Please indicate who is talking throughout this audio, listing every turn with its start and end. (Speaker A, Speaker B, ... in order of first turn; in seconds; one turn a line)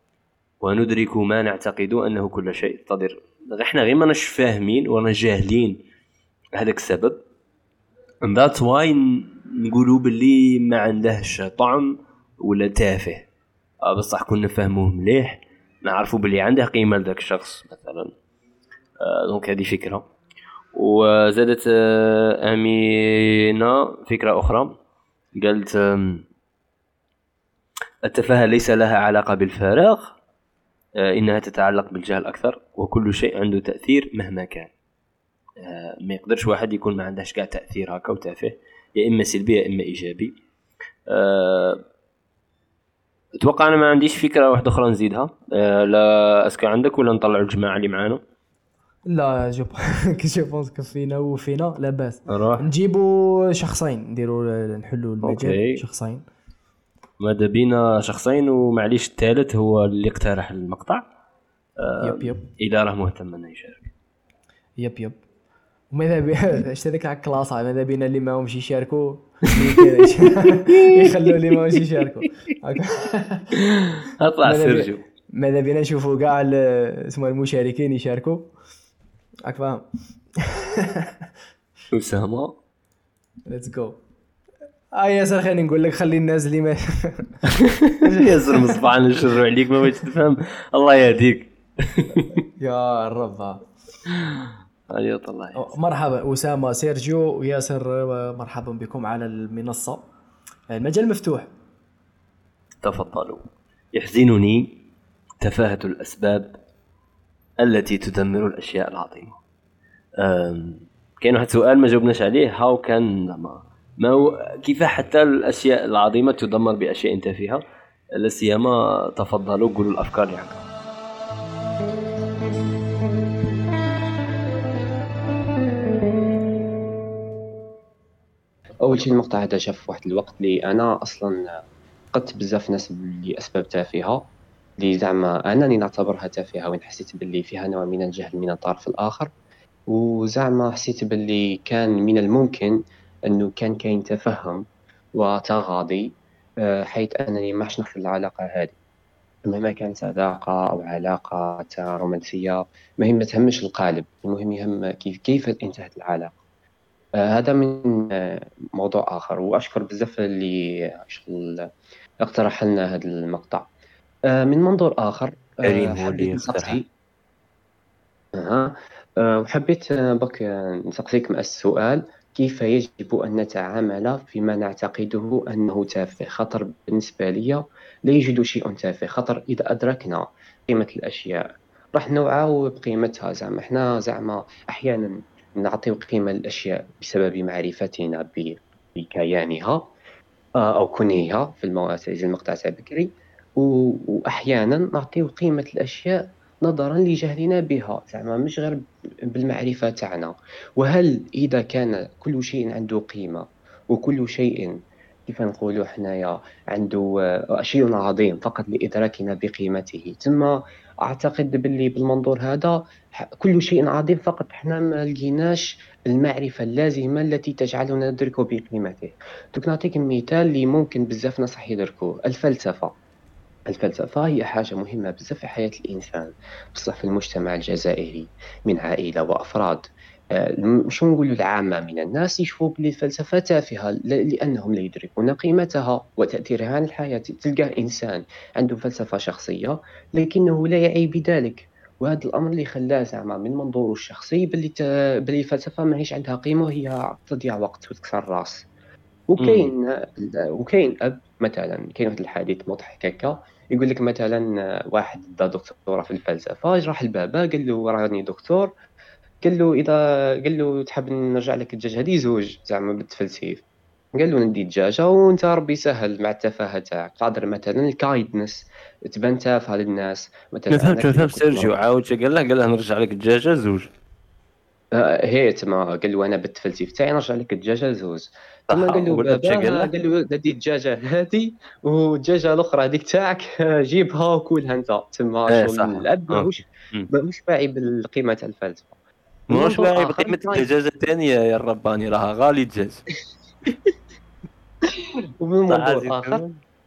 Speaker A: 0.6-5.8
Speaker A: 6.5-7.2
Speaker A: 8.2-13.2
Speaker A: 13.8-18.1
Speaker A: 19.0-20.1
Speaker A: 20.7-24.8
Speaker A: 25.4-26.2
Speaker A: 28.0-30.1
Speaker A: 31.0-34.7
Speaker A: 35.6-40.3
Speaker A: 41.1-41.8
Speaker A: 43.4-48.2
Speaker B: 49.1-56.2
Speaker A: 52.3-52.6
Speaker A: 55.2-55.8
Speaker A: 57.2-61.0
Speaker A: 61.8-63.9
Speaker B: 62.0-62.5
Speaker B: 64.8-65.2
Speaker B: 65.9-73.5
Speaker A: 70.5-71.8
Speaker A: 73.8-75.0
Speaker B: 74.4-78.5
Speaker B: 79.5-79.8
Speaker B: 80.4-81.1
Speaker A: 81.9-82.5
Speaker B: 83.5-84.0
Speaker B: 84.9-88.8
Speaker A: 87.6-92.3
Speaker B: 92.6-93.7
Speaker A: 94.1-95.7
Speaker B: 95.5-100.0
Speaker B: 100.7-101.5
Speaker A: 102.8-104.8
Speaker A: 105.4-106.6
Speaker A: 107.6-109.4
Speaker A: 110.2-117.6
Speaker A: 118.2-120.6
Speaker C: 128.8-131.6
Speaker C: 132.1-139.3
Speaker C: 139.9-142.8
Speaker C: 143.3-144.6
Speaker C: 145.1-146.1
Speaker C: 146.6-148.7
Speaker C: 149.5-156.3
Speaker C: 157.2-161.6
Speaker C: 162.2-163.7
Speaker C: 164.3-166.8
Speaker A: 165.6-166.8
Speaker C: 168.3-181.4
Speaker C: 181.9-189.9
Speaker C: 190.6-222.9
Speaker C: 223.7-229.8
Speaker C: 230.3-248.6
Speaker C: 249.3-258.7
Speaker A: 249.4-249.7
Speaker C: 259.4-263.6
Speaker C: 264.1-271.7
Speaker A: 270.7-273.9
Speaker C: 274.9-289.0
Speaker A: 278.7-279.9
Speaker A: 285.5-287.1
Speaker A: 289.5-293.0
Speaker C: 289.5-290.6
Speaker C: 295.4-296.4
Speaker A: 295.7-296.6